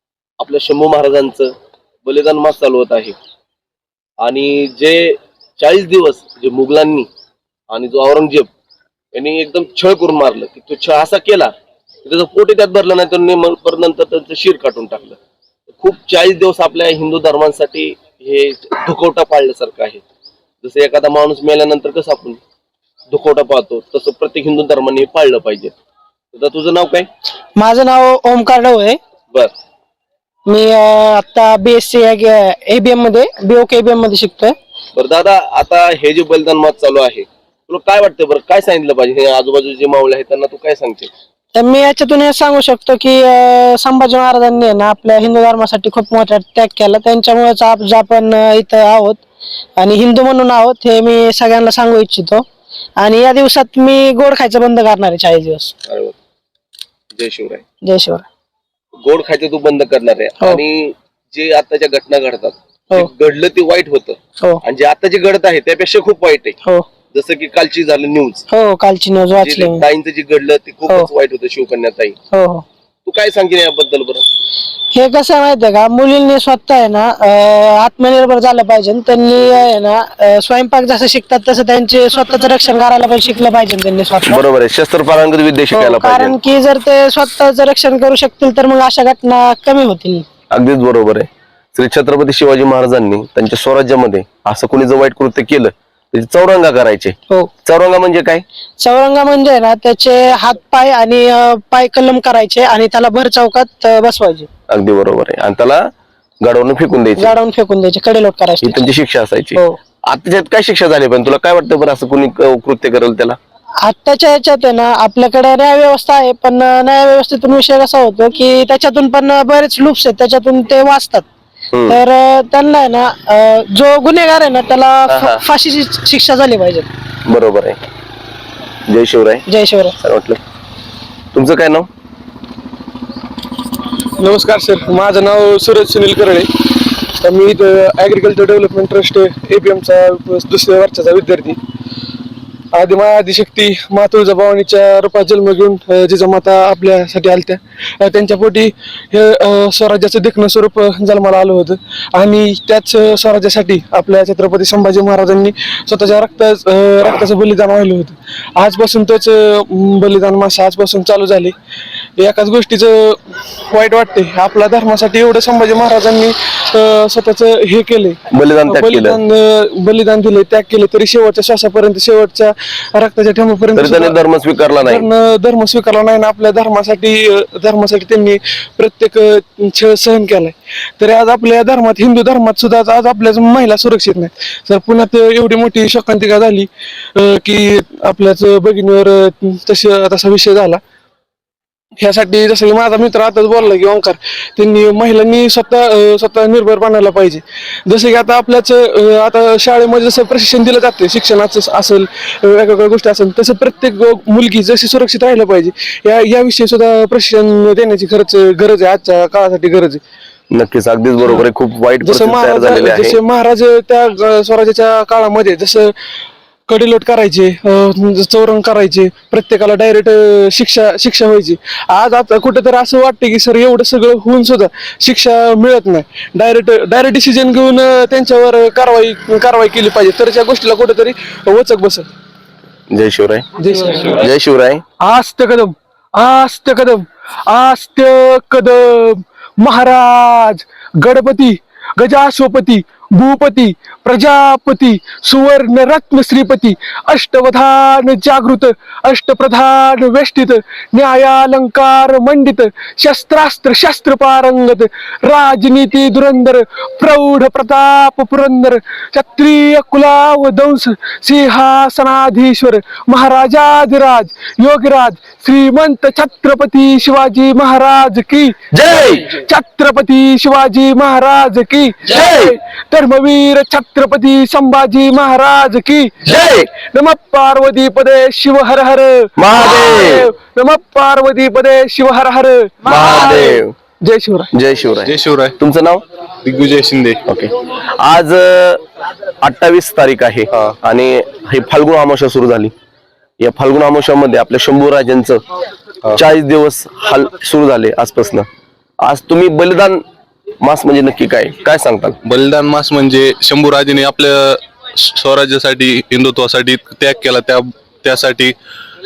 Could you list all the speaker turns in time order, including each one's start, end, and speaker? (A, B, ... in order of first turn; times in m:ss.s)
0:00.4-0:01.5 A
0:02.0-0:03.2 A
0:04.2-0:07.1 A
0:07.7-0:08.5 A
0:09.1-0:11.5 A
0:12.0-0:15.2 A
0:15.7-0:20.0 A
0:20.6-0:22.4 A
0:23.1-0:25.7 A
0:26.3-0:27.1 A
0:27.6-0:29.0 B
0:30.5-0:34.6 B
0:35.0-0:41.1 A
0:41.6-0:49.2 B
0:49.8-0:52.4 B
0:53.0-0:55.7 B
0:55.9-0:56.2 A
0:57.1-0:57.6 A
0:57.8-0:58.2 B
0:59.0-1:06.6 A
1:07.1-1:08.5 A
1:08.5-1:09.8 B
1:09.4-1:12.2 A
1:12.3-1:12.6 B
1:13.1-1:14.3 A
1:15.0-1:24.4 B
1:24.3-1:26.4 A
1:25.7-1:30.3 B
1:30.5-1:38.4 A
1:38.8-1:44.5 B
1:44.7-1:45.9 A
1:46.4-1:47.4 A
1:47.2-1:48.8 B
1:48.6-1:53.4 A
1:53.8-2:01.3 B
2:01.7-2:02.0 A
2:01.9-2:06.9 B
2:07.3-2:07.8 A
2:08.9-2:09.4 A
2:09.5-2:10.0 B
2:10.0-2:10.4 A
2:11.3-2:11.9 A
2:14.2-2:16.5 C
2:17.2-2:21.6 C
2:22.7-2:41.5 C
2:42.2-2:54.2 C
2:48.3-2:49.2 A
2:53.8-2:55.1 A
2:54.8-3:10.8 C
3:12.0-3:30.0 C
3:30.5-3:33.2 A
3:32.0-3:35.9 C
3:36.7-3:52.1 C
3:52.9-3:53.5 A
3:53.6-3:54.2 C
3:54.1-3:54.8 A
3:55.0-4:44.5 C
4:28.7-4:29.3 A
4:32.1-4:32.5 A
4:36.2-4:36.7 A
4:39.4-4:40.3 A
4:42.8-4:43.8 A
4:44.5-4:46.0 A
4:45.1-4:45.6 D
4:46.4-4:47.2 D
4:47.3-4:48.8 A
4:49.4-4:52.7 A
4:53.4-4:55.4 A
4:56.2-4:58.5 A
4:59.0-5:00.0 A
5:00.6-5:02.2 A
5:02.3-5:08.6 D